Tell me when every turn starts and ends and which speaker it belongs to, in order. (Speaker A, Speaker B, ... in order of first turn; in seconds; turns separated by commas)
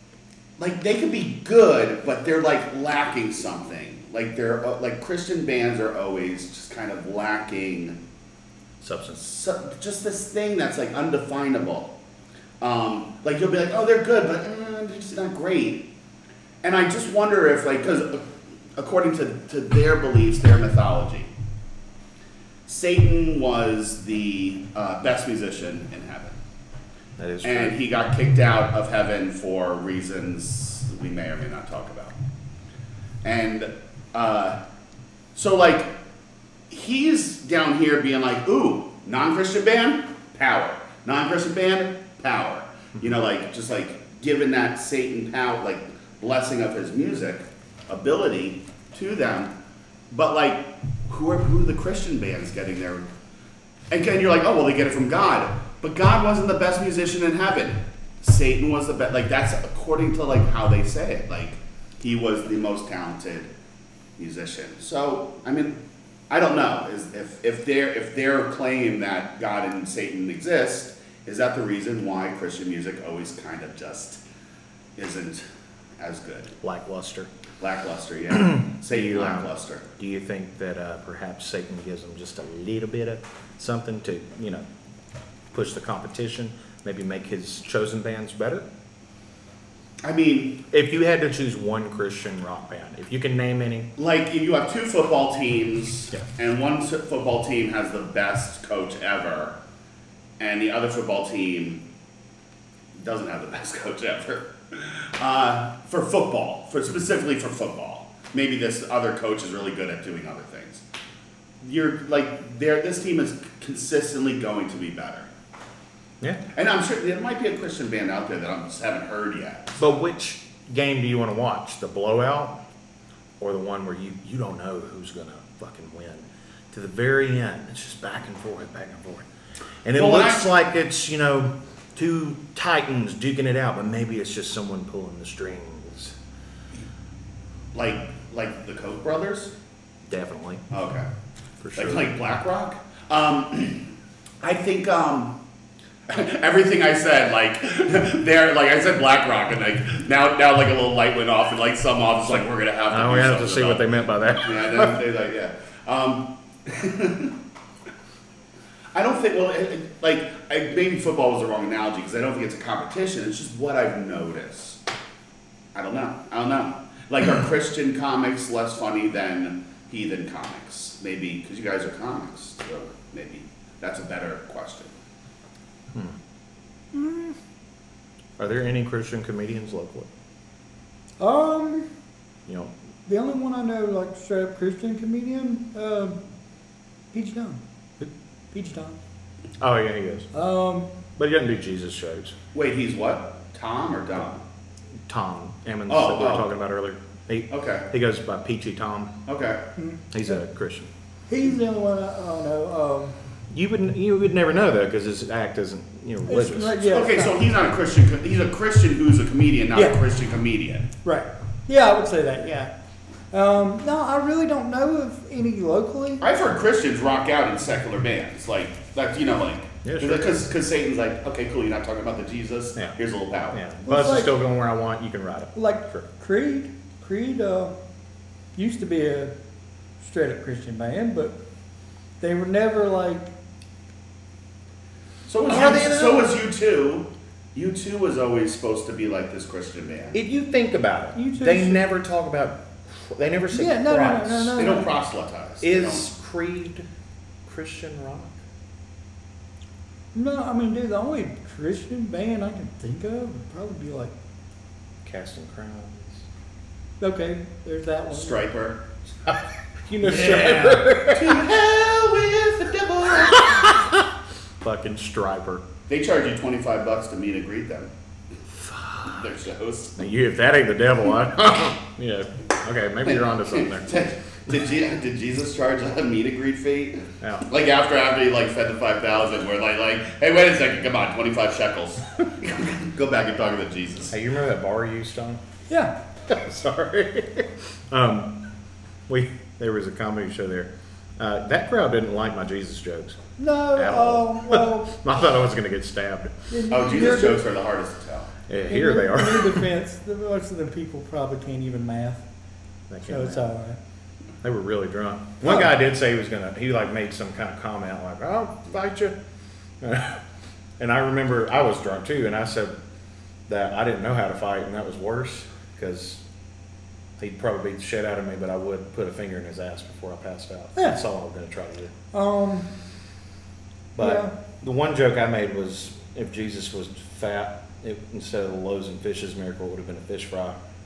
Speaker A: 0.6-8.0, Speaker B: 8.8-9.2, Speaker A: 9.1-11.9, Speaker A: 12.6-15.9, Speaker A: 16.6-21.3, Speaker A: 22.7-26.4, Speaker B: 27.2-27.8, Speaker A: 27.4-32.2, Speaker A: 33.2-34.6, Speaker A: 35.3-35.9, Speaker A: 36.7-49.5, Speaker A: 50.1-53.1, Speaker A: 53.9-63.5, Speaker A: 64.2-74.2, Speaker A: 75.0-75.4, Speaker A: 76.0-76.5, Speaker B: 76.6-77.3, Speaker A: 77.6-79.8, Speaker B: 78.4-84.6, Speaker B: 85.5-88.7, Speaker A: 90.0-90.6, Speaker B: 90.7-93.9, Speaker A: 94.0-99.6, Speaker A: 100.4-101.8, Speaker A: 103.0-110.8, Speaker A: 111.6-115.3, Speaker A: 116.5-119.8, Speaker B: 119.8-122.6, Speaker B: 123.4-129.2, Speaker B: 129.8-136.1, Speaker A: 129.9-130.5, Speaker A: 137.7-139.5, Speaker B: 140.1-140.6, Speaker A: 140.7-141.1, Speaker B: 141.6-142.1, Speaker A: 141.8-143.9, Speaker A: 144.4-145.4, Speaker A: 146.1-157.4, Speaker B: 152.9-155.0, Speaker A: 158.9-164.8, Speaker A: 165.7-174.9, Speaker C: 176.9-177.4, Speaker B: 178.4-180.1, Speaker C: 181.2-181.9, Speaker B: 182.5-182.7, Speaker C: 183.1-186.2, Speaker C: 187.1-187.6, Speaker C: 188.5-189.0, Speaker B: 189.6-190.3, Speaker C: 190.3-190.9, Speaker B: 191.2-192.3, Speaker A: 192.5-194.4, Speaker B: 195.1-199.2, Speaker A: 195.9-196.5, Speaker A: 197.5-197.9, Speaker A: 199.2-199.6, Speaker C: 199.8-200.3, Speaker B: 200.1-200.9, Speaker C: 201.3-203.1, Speaker B: 203.5-206.8, Speaker C: 206.3-207.4, Speaker A: 206.9-210.9, Speaker C: 211.0-212.7, Speaker C: 213.3-216.2, Speaker A: 216.2-223.6, Speaker B: 219.8-220.3, Speaker B: 223.5-226.0, Speaker C: 223.8-224.3, Speaker C: 225.6-227.7, Speaker C: 228.6-229.3, Speaker C: 230.0-231.3, Speaker C: 232.2-233.3, Speaker A: 235.3-240.2, Speaker B: 235.5-236.3, Speaker B: 240.1-244.8, Speaker C: 241.1-241.8, Speaker C: 243.5-244.9, Speaker A: 244.6-246.1, Speaker B: 245.6-246.9, Speaker B: 247.4-248.4, Speaker C: 250.1-254.1, Speaker B: 255.0-256.2, Speaker C: 257.0-258.4, Speaker A: 258.1-258.8, Speaker B: 259.2-261.4, Speaker A: 260.1-263.7, Speaker B: 263.4-264.1, Speaker B: 264.6-265.6, Speaker A: 265.9-267.9, Speaker B: 268.6-269.2, Speaker A: 269.1-269.9, Speaker B: 269.9-273.9, Speaker A: 273.0-284.1, Speaker B: 277.2-277.5, Speaker B: 284.1-285.4, Speaker C: 285.7-285.9, Speaker B: 286.3-288.4, Speaker B: 289.1-293.2, Speaker C: 293.4-295.0, Speaker B: 293.8-296.4, Speaker C: 296.5-297.4, Speaker A: 296.7-298.3, Speaker B: 298.5-299.7, Speaker C: 298.7-302.2, Speaker B: 302.9-303.5, Speaker C: 303.1-303.8, Speaker B: 304.4-309.2, Speaker B: 309.8-310.2, Speaker B: 310.8-312.7, Speaker B: 313.5-316.2, Speaker B: 317.2-321.9, Speaker C: 322.1-322.7, Speaker B: 323.9-330.6, Speaker C: 324.0-324.3